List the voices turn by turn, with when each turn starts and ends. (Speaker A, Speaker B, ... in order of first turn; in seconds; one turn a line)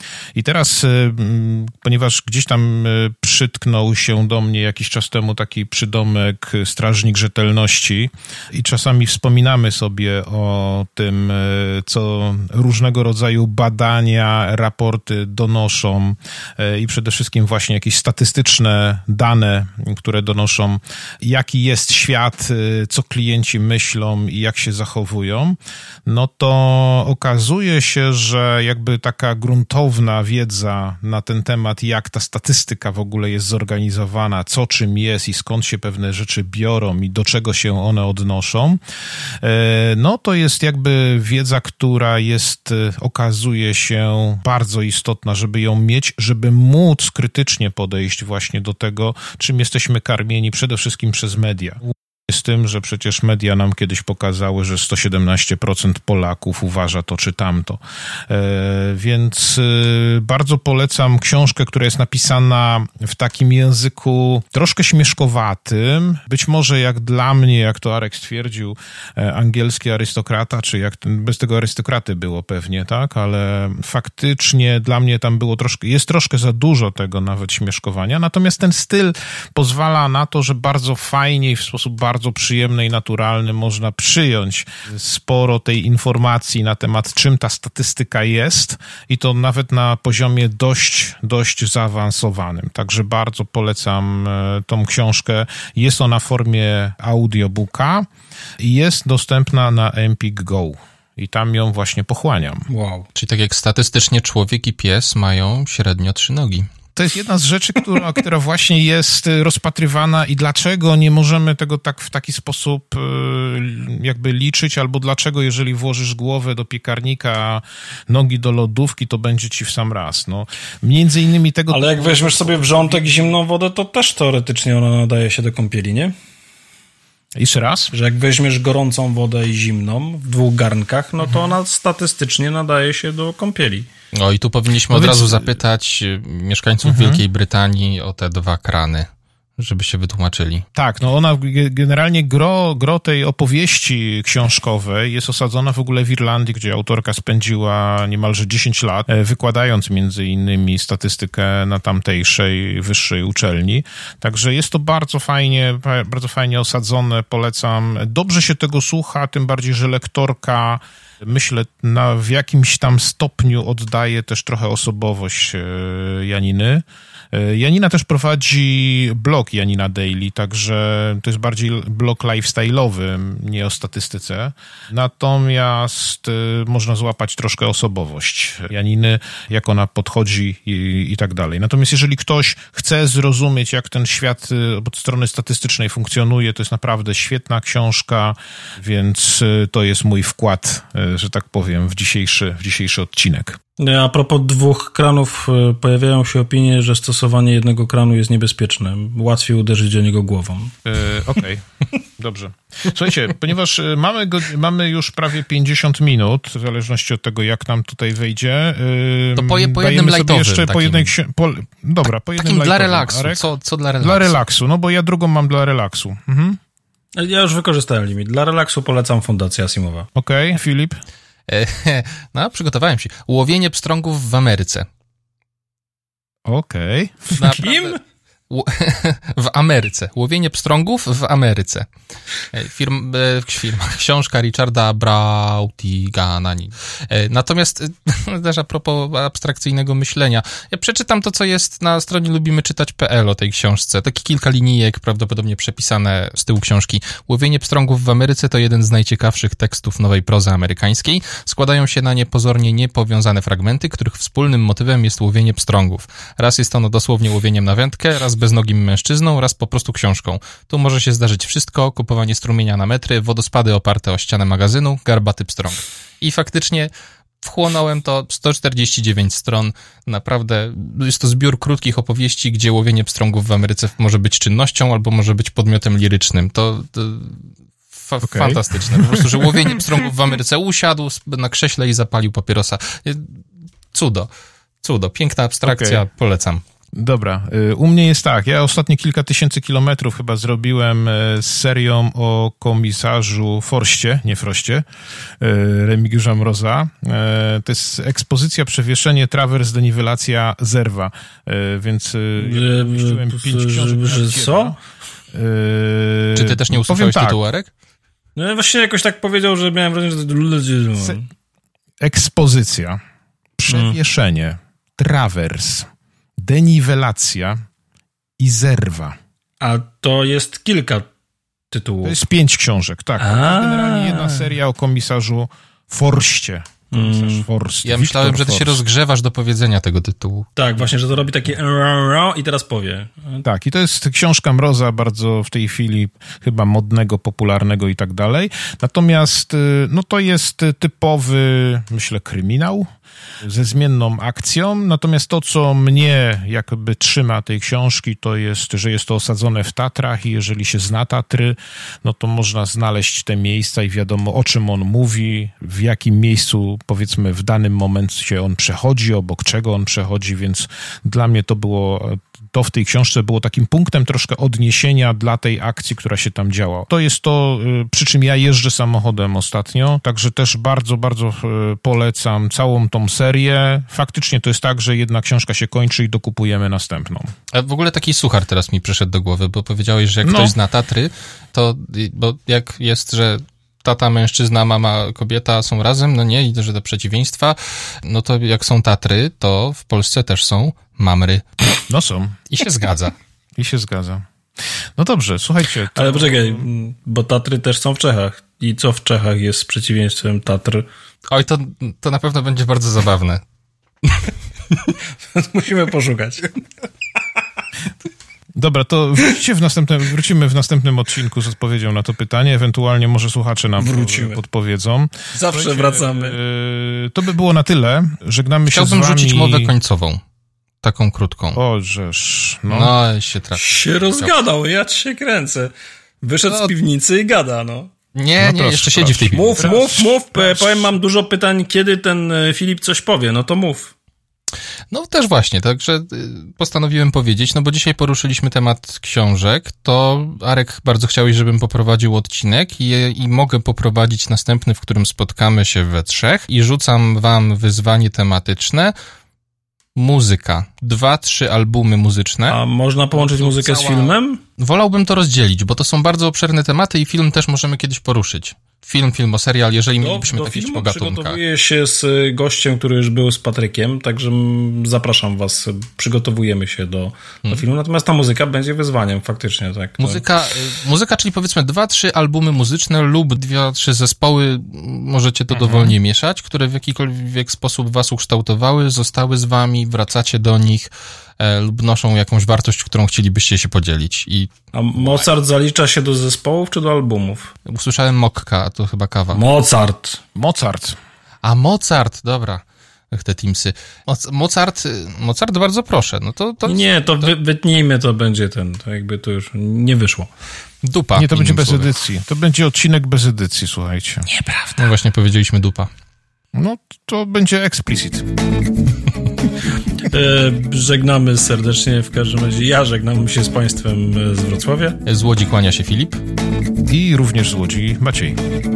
Speaker A: 0.3-38.8
Speaker A: 39.4-98.1
Speaker A: 98.6-102.7
Speaker B: 102.7-103.1
Speaker C: 103.1-106.7
Speaker A: 107.0-123.2
Speaker B: 121.7-126.1
Speaker A: 127.3-127.9
Speaker B: 127.9-133.9
Speaker C: 134.1-140.6
Speaker A: 134.9-135.5
Speaker A: 136.8-137.2
Speaker A: 140.8-193.6
Speaker B: 193.8-200.7
Speaker A: 200.8-201.6
Speaker A: 202.2-213.4
Speaker C: 209.3-211.1
Speaker C: 212.4-214.4
Speaker A: 214.0-216.6
Speaker B: 217.2-220.1
Speaker A: 220.2-221.0
Speaker C: 221.5-224.9
Speaker A: 226.4-227.4
Speaker B: 227.3-228.0
Speaker C: 227.4-228.0
Speaker C: 228.5-231.9
Speaker C: 232.5-266.9
Speaker C: 267.4-283.4
Speaker A: 278.2-279.7
Speaker C: 283.9-284.3
Speaker C: 284.8-286.6
Speaker A: 285.6-286.0
Speaker A: 286.9-294.9
Speaker A: 295.4-304.8
Speaker B: 302.4-304.8
Speaker A: 305.3-307.4
Speaker C: 306.3-307.7
Speaker B: 308.4-311.3
Speaker A: 312.0-313.0
Speaker A: 313.6-317.6
Speaker B: 313.7-313.9
Speaker A: 318.4-319.1
Speaker B: 319.6-321.1
Speaker B: 321.7-322.2
Speaker A: 322.0-328.8
Speaker B: 323.2-324.5
Speaker B: 326.9-327.4
Speaker C: 327.8-330.5
Speaker B: 330.6-333.4
Speaker A: 333.4-342.9
Speaker A: 343.4-377.3
Speaker C: 377.5-391.4
Speaker A: 380.2-380.5
Speaker A: 391.9-392.4
Speaker C: 392.5-393.1
Speaker A: 393.6-394.2
Speaker A: 394.9-396.7
Speaker B: 395.9-400.9
Speaker C: 401.3-403.4
Speaker B: 404.7-406.6
Speaker A: 408.6-419.7
Speaker B: 413.8-414.4
Speaker B: 415.3-416.4
Speaker C: 418.7-420.2
Speaker C: 420.8-421.6
Speaker A: 421.5-422.9
Speaker C: 422.7-424.3
Speaker B: 423.5-427.9
Speaker C: 428.1-429.5
Speaker A: 428.4-430.9
Speaker B: 429.3-433.9
Speaker C: 434.9-448.9
Speaker C: 449.9-452.6
Speaker B: 452.5-454.4
Speaker C: 453.1-461.4
Speaker B: 460.0-470.2
Speaker C: 470.0-484.5
Speaker A: 475.5-476.0
Speaker B: 484.7-487.5
Speaker C: 487.6-489.4
Speaker B: 489.3-490.2
Speaker A: 490.3-491.0
Speaker C: 491.4-497.3
Speaker B: 496.6-500.3
Speaker C: 500.8-501.9
Speaker A: 501.1-504.3
Speaker B: 504.3-504.8
Speaker C: 504.8-505.9
Speaker A: 506.5-508.3
Speaker B: 510.0-515.0
Speaker C: 515.0-516.2
Speaker A: 516.9-518.4